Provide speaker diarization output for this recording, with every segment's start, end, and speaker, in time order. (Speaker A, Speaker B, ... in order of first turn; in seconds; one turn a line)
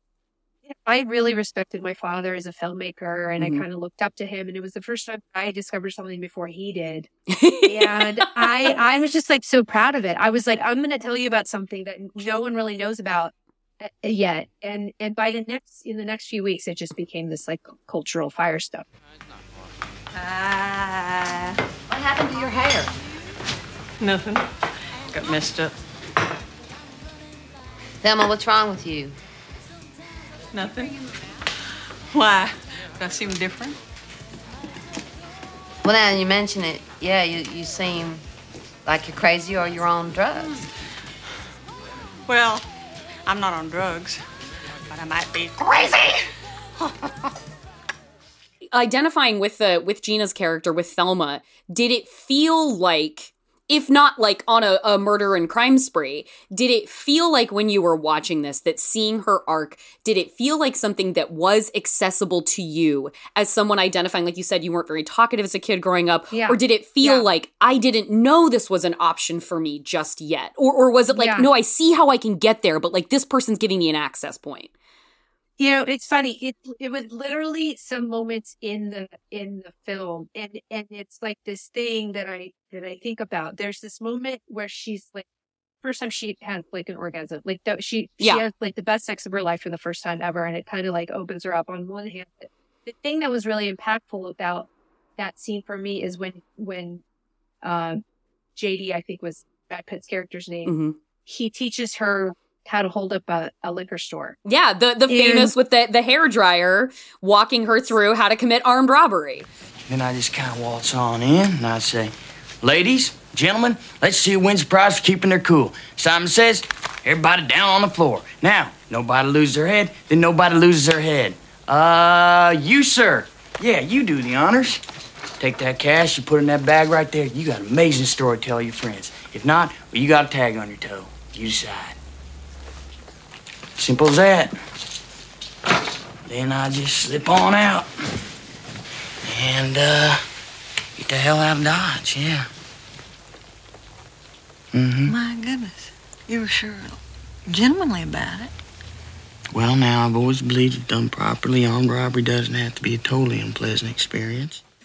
Speaker A: 0.6-7.1
Speaker B: 3.4-3.6
Speaker B: 7.3-8.7
Speaker A: 7.6-18.9
Speaker C: 20.2-21.1
Speaker D: 21.9-22.9
Speaker C: 24.0-24.4
Speaker C: 25.1-25.7
Speaker D: 28.0-29.1
Speaker C: 30.5-30.9
Speaker C: 32.1-33.8
Speaker D: 35.8-38.2
Speaker D: 38.9-40.6
Speaker C: 42.3-42.6
Speaker C: 43.2-44.2
Speaker C: 44.9-46.1
Speaker B: 48.7-74.7
Speaker A: 66.3-67.2
Speaker A: 71.1-71.5
Speaker A: 75.6-85.2
Speaker A: 85.8-97.0
Speaker A: 97.6-98.0
Speaker A: 98.5-100.7
Speaker B: 100.6-101.0
Speaker A: 101.2-104.3
Speaker B: 104.4-109.5
Speaker A: 105.1-105.5
Speaker E: 109.9-124.8
Speaker E: 125.4-132.0
Speaker E: 133.8-134.5
Speaker E: 136.3-137.9
Speaker E: 139.2-140.2
Speaker E: 141.0-142.5
Speaker E: 144.7-145.1
Speaker F: 145.1-148.5
Speaker E: 149.5-154.6